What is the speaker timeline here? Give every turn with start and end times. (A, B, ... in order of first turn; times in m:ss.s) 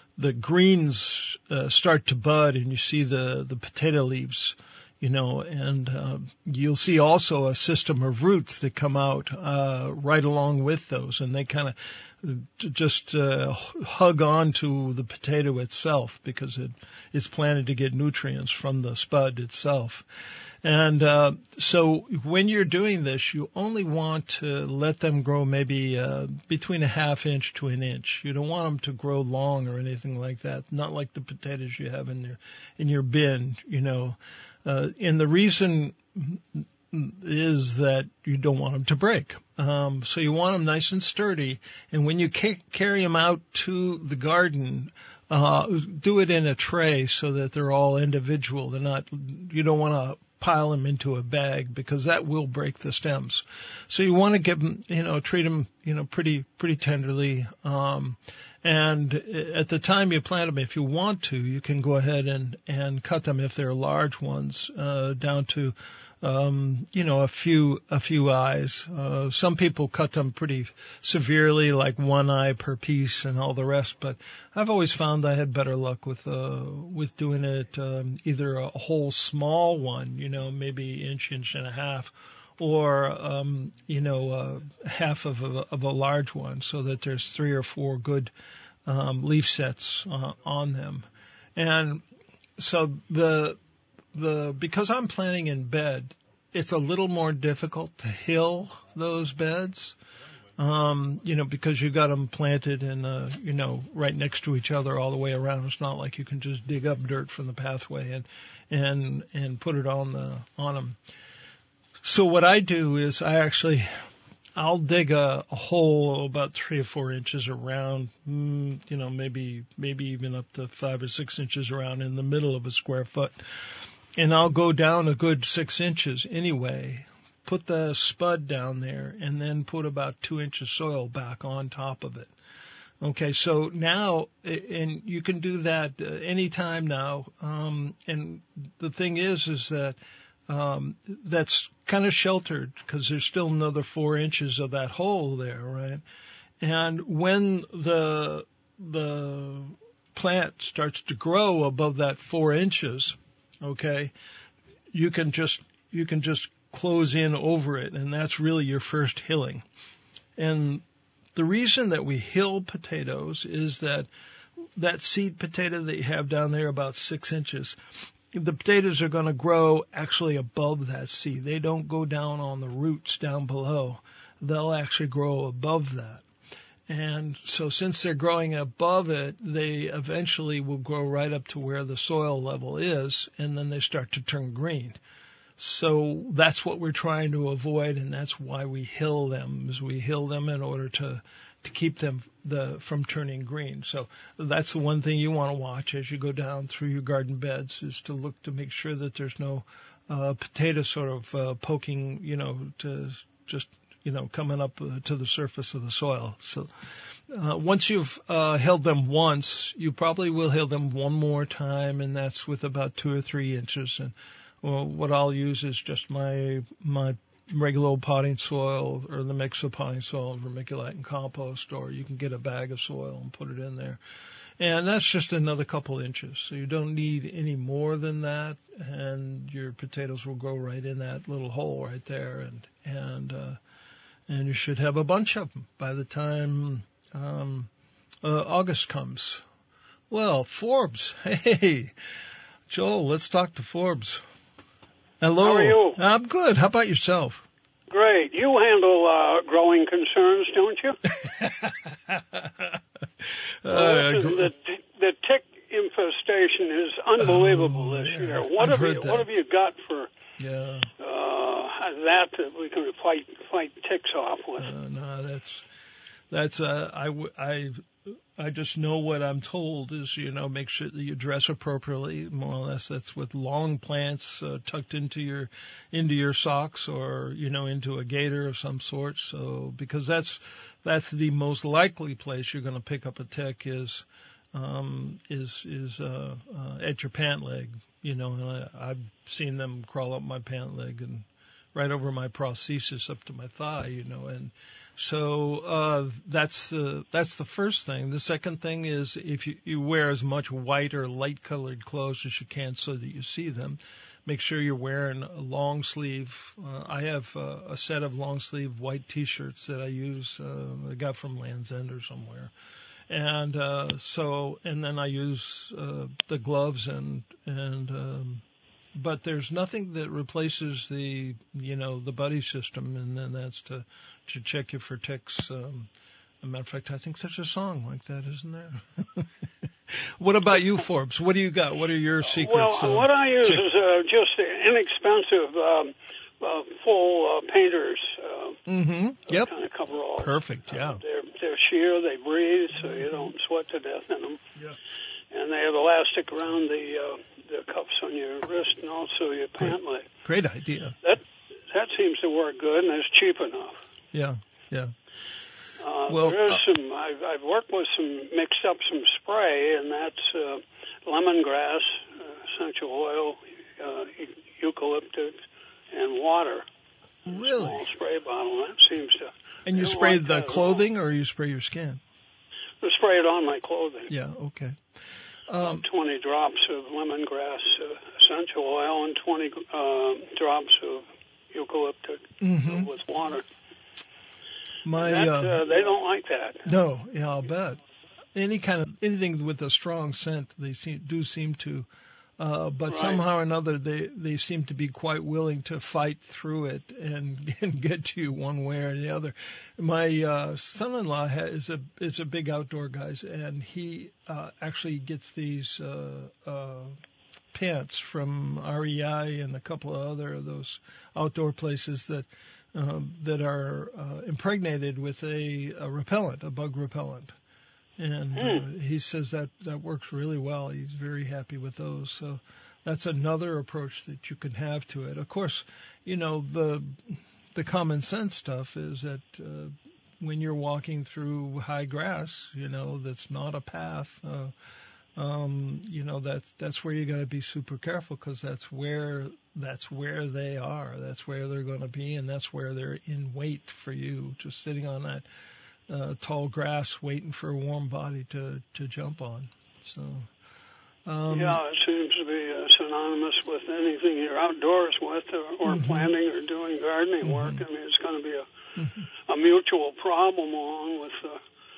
0:00.2-1:28.3 A
1:28.9-1:32.0 A
1:32.6-1:33.6 A
1:34.1-1:40.0 A
1:40.6-1:51.0 A
1:52.0-1:54.0 A
1:54.6-2:03.4 A
2:04.2-2:12.3 A
2:13.0-2:20.0 A
2:20.5-2:26.0 A
2:26.6-2:34.1 A
2:34.9-2:39.6 A
2:40.4-2:40.8 A
2:41.4-2:44.1 A
2:44.8-2:47.8 A
2:48.3-2:56.2 A
2:56.9-3:05.0 A
3:05.6-3:44.0 A
3:44.6-3:53.6 A
3:54.3-3:57.7 A
3:58.2-3:59.4 A
4:00.1-4:01.9 A
4:02.7-4:04.2 A
4:05.2-4:07.4 A
4:05.4-4:06.0 B
4:07.9-4:11.0 B
4:11.1-4:14.5 A
4:13.7-4:20.1 B
4:17.2-4:19.3 A
4:20.4-4:20.9 A
4:21.0-4:24.7 B
4:24.6-4:25.6 A
4:26.3-5:12.5 A
5:13.1-5:18.4 A
5:19.0-5:25.9 A
5:26.4-5:29.3 A
5:29.9-5:33.7 A
5:32.2-5:38.6 B
5:38.7-5:39.5 A
5:39.3-5:44.4 B
5:40.2-5:41.0 A
5:45.3-5:50.1 B
5:49.6-5:51.0 A
5:51.0-5:53.8 B
5:54.1-5:54.9 A
5:55.8-6:06.6 B
5:56.1-5:56.6 A
6:07.3-6:07.8 A
6:07.3-6:10.9 B
6:09.6-6:12.0 A
6:12.8-6:14.1 B
6:14.1-6:14.8 A
6:15.5-6:15.8 A
6:15.6-6:23.4 B
6:22.4-6:22.9 A
6:24.8-6:25.6 A
6:24.9-6:26.7 B
6:26.6-6:27.8 A
6:28.4-6:31.9 A
6:32.4-6:47.0 A
6:32.9-6:33.2 B
6:47.5-6:57.3 A
6:58.0-7:14.5 A
6:58.4-6:58.7 B
7:15.2-7:25.2 A
7:25.9-7:30.3 A
7:31.0-7:31.6 A
7:31.3-7:38.4 B
7:35.6-7:36.1 A
7:37.2-7:37.6 A
7:39.3-7:41.4 B